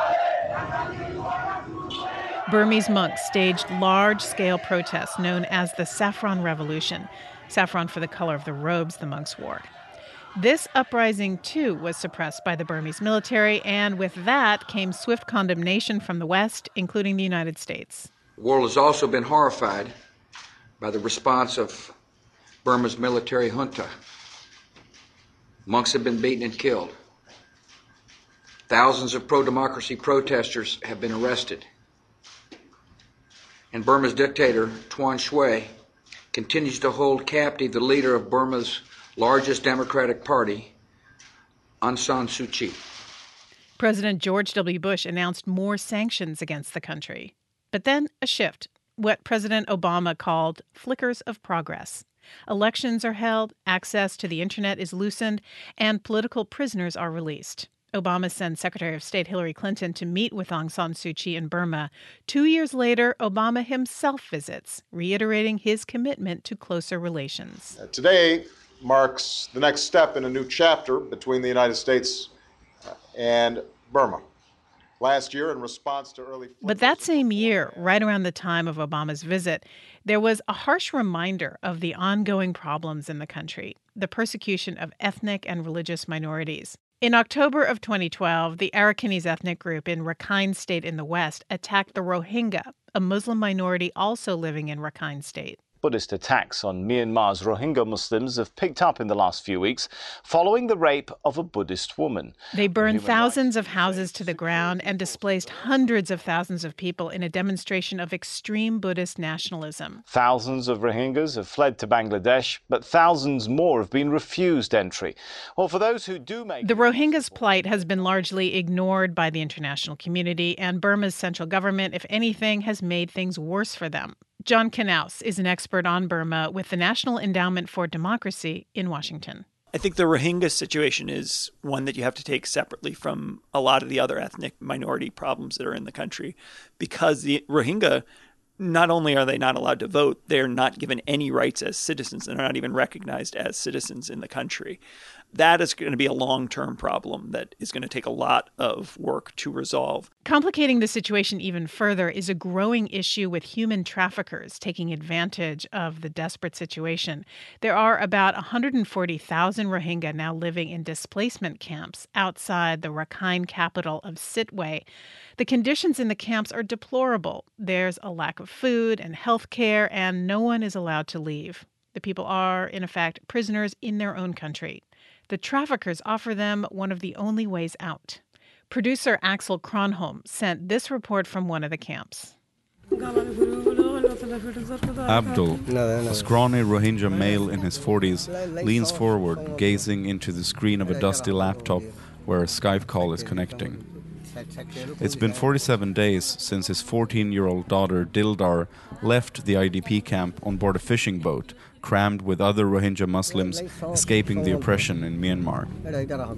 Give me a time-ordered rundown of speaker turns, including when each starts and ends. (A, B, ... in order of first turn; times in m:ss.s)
0:02.5-0:09.7 A
0:10.4-0:18.1 A
0:18.4-0:19.9 B
0:20.8-0:21.9 B
0:22.6-0:23.9 B
0:25.6-0:26.9 B
0:28.7-0:31.7 B
0:33.7-0:35.7 B
0:36.3-0:40.7 B
0:41.8-0:42.8 B
0:43.8-1:07.7 A
1:07.8-1:12.3 C
1:13.1-1:14.2 C
1:15.0-1:17.9 C
1:16.6-1:35.6 A
1:35.8-1:45.0 D
1:42.5-1:50.0 A
1:50.1-1:57.2 D
1:56.6-2:09.4 A
2:09.7-2:18.0 E
2:18.6-2:24.8 E
2:25.3-2:30.1 E
2:30.2-2:44.8 A
2:45.4-3:02.3 A
3:05.0-3:13.8 F
3:15.0-3:25.7 F